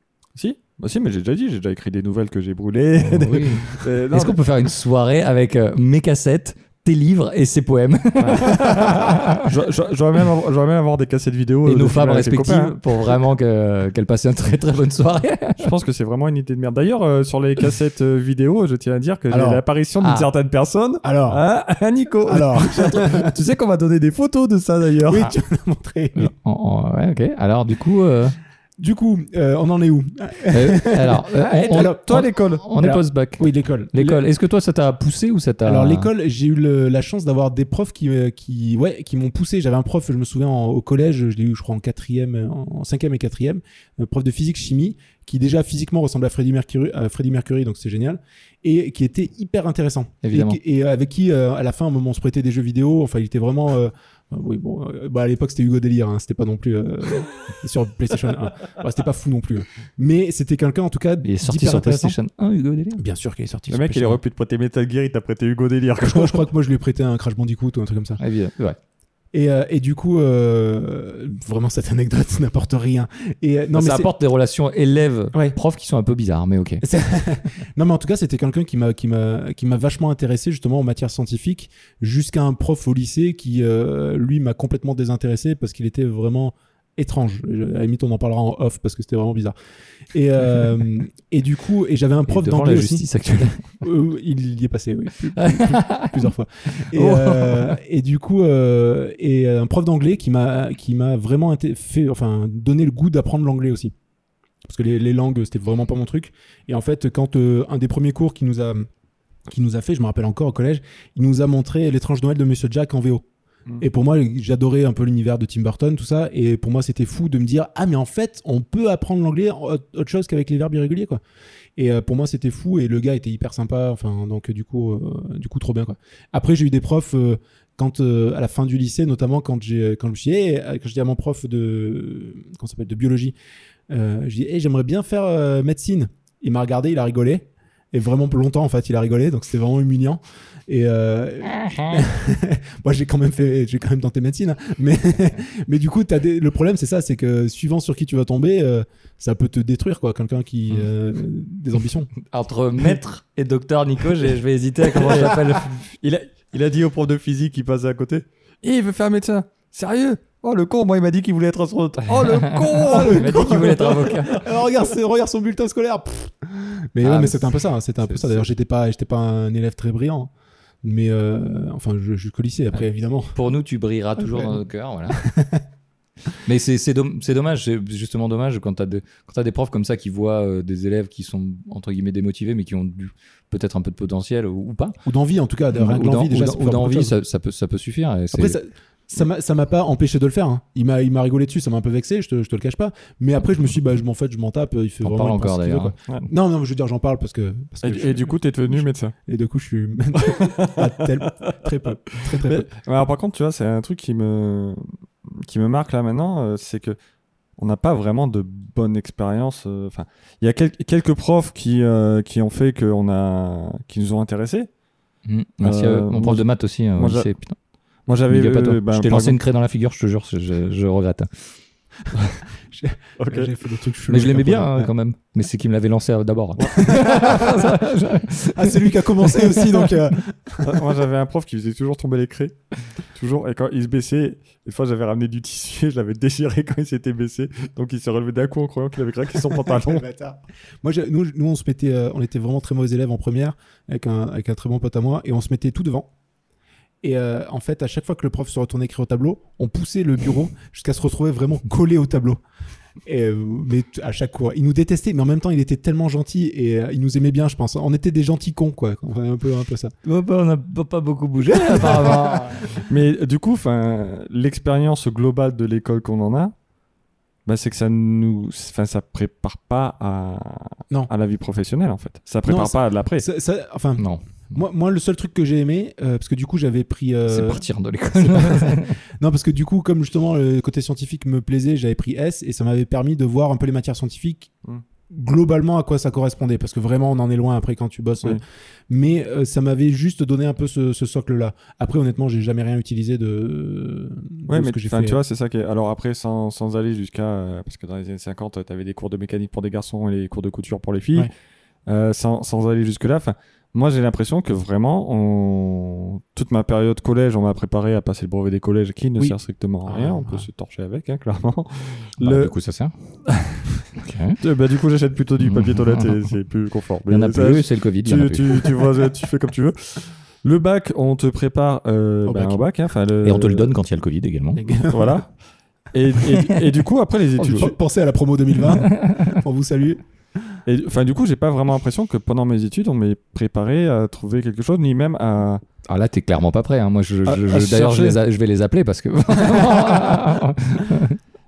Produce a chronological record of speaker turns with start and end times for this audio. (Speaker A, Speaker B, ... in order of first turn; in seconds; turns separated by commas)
Speaker A: 0.3-4.4, Speaker B: 3.0-9.5, Speaker A: 8.2-12.8, Speaker B: 11.6-15.7, Speaker A: 15.6-25.3, Speaker C: 19.3-19.6, Speaker B: 20.0-20.3, Speaker C: 21.0-21.4, Speaker C: 22.2-23.3, Speaker C: 25.0-26.3, Speaker B: 26.1-28.4, Speaker C: 28.8-32.0, Speaker B: 30.5-36.1, Speaker A: 31.4-32.6, Speaker C: 32.8-34.2, Speaker C: 35.6-62.2, Speaker B: 50.2-50.6, Speaker B: 61.2-63.0, Speaker C: 63.0-64.2, Speaker A: 63.7-66.5, Speaker C: 66.0-68.2, Speaker B: 68.2-68.8, Speaker C: 69.3-74.1, Speaker B: 73.7-76.8, Speaker C: 76.8-89.5, Speaker C: 90.1-93.1, Speaker B: 92.3-93.7, Speaker C: 93.7-103.9, Speaker B: 95.4-96.2, Speaker B: 96.9-97.8, Speaker C: 104.6-108.9, Speaker C: 109.5-113.2, Speaker C: 113.8-121.2, Speaker C: 121.8-133.3, Speaker C: 133.9-152.1, Speaker B: 141.6-141.9, Speaker B: 152.2-155.8, Speaker A: 154.9-164.2, Speaker B: 162.1-164.4, Speaker C: 162.8-170.3, Speaker B: 167.0-168.5, Speaker C: 170.8-173.3, Speaker B: 173.3-175.2, Speaker C: 174.2-175.6, Speaker B: 176.4-185.0, Speaker C: 185.0-187.1, Speaker B: 185.7-188.6, Speaker C: 188.3-202.7, Speaker B: 195.0-195.9, Speaker A: 197.8-199.1, Speaker A: 200.2-201.5, Speaker A: 202.1-207.0, Speaker A: 207.6-214.7, Speaker B: 215.2-217.6, Speaker A: 215.6-217.3, Speaker A: 218.1-219.4, Speaker B: 218.3-221.3, Speaker C: 222.7-224.9, Speaker A: 223.2-223.5, Speaker B: 224.1-229.9, Speaker C: 226.7-227.8, Speaker C: 228.5-230.8, Speaker A: 230.6-232.5, Speaker A: 233.1-240.0, Speaker C: 239.5-246.1, Speaker C: 247.0-252.4, Speaker C: 253.0-259.9, Speaker B: 260.0-262.7, Speaker C: 261.5-262.4, Speaker A: 262.8-266.5, Speaker A: 267.4-273.2, Speaker C: 272.4-277.6, Speaker B: 274.0-274.2, Speaker B: 277.3-279.0, Speaker C: 278.1-284.5, Speaker C: 285.1-295.2, Speaker A: 294.5-301.3, Speaker A: 301.9-312.5, Speaker C: 309.2-310.5, Speaker B: 312.2-312.9, Speaker A: 313.3-313.8, Speaker B: 314.0-314.4, Speaker A: 314.4-323.7, Speaker B: 315.4-316.3, Speaker B: 317.1-318.7, Speaker C: 322.2-322.6, Speaker B: 323.2-324.9, Speaker C: 324.6-325.1, Speaker A: 324.8-325.3, Speaker A: 325.9-327.7, Speaker C: 327.4-330.6, Speaker B: 328.8-329.4, Speaker A: 330.6-335.6, Speaker B: 335.9-341.2, Speaker A: 337.2-338.2